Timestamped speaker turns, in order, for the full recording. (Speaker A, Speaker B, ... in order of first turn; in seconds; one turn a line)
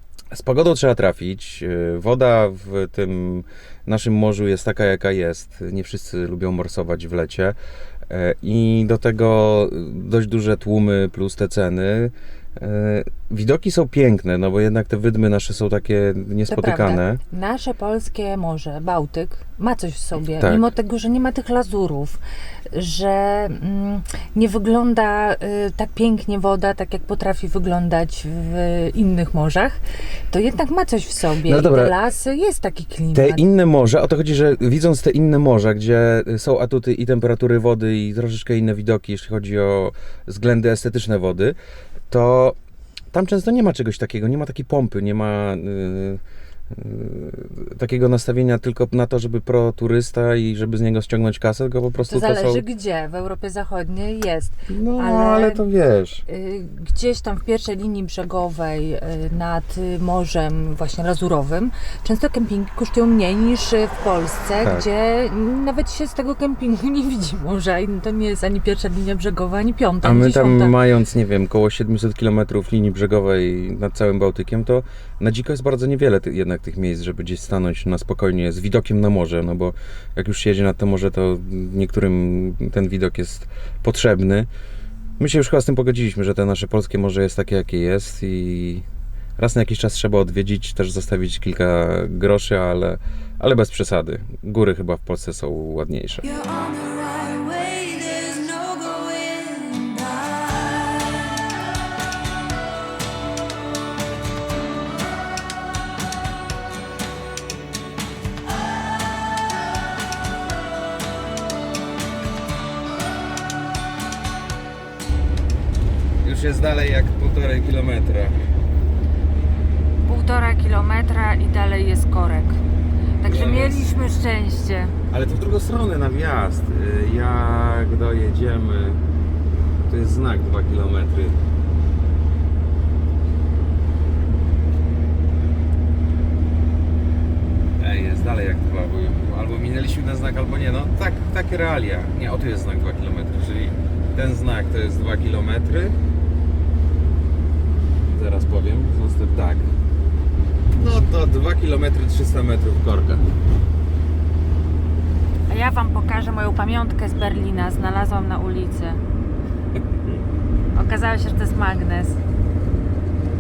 Speaker A: 0.3-7.6
Speaker A: 8.1-17.2
Speaker B: 16.5-22.2
Speaker A: 20.4-20.7
Speaker B: 22.7-29.8
Speaker B: 30.3-33.4
Speaker A: 31.4-31.9
Speaker A: 33.1-41.6
Speaker A: 42.1-42.6
Speaker A: 43.1-46.2
Speaker A: 46.7-52.6
Speaker B: 52.0-55.6
Speaker A: 54.7-56.2
Speaker B: 56.3-70.8
Speaker A: 70.0-84.5
Speaker A: 85.2-88.8
Speaker A: 89.4-96.4
Speaker B: 96.3-100.8
Speaker A: 116.2-118.4
Speaker B: 120.1-122.6
Speaker B: 123.2-125.0
Speaker A: 123.2-124.0
Speaker A: 125.1-129.0
Speaker A: 129.9-131.4
Speaker A: 137.8-145.9
Speaker A: 148.1-149.7
Speaker A: 150.7-153.3
Speaker B: 155.5-159.0
Speaker B: 160.7-162.2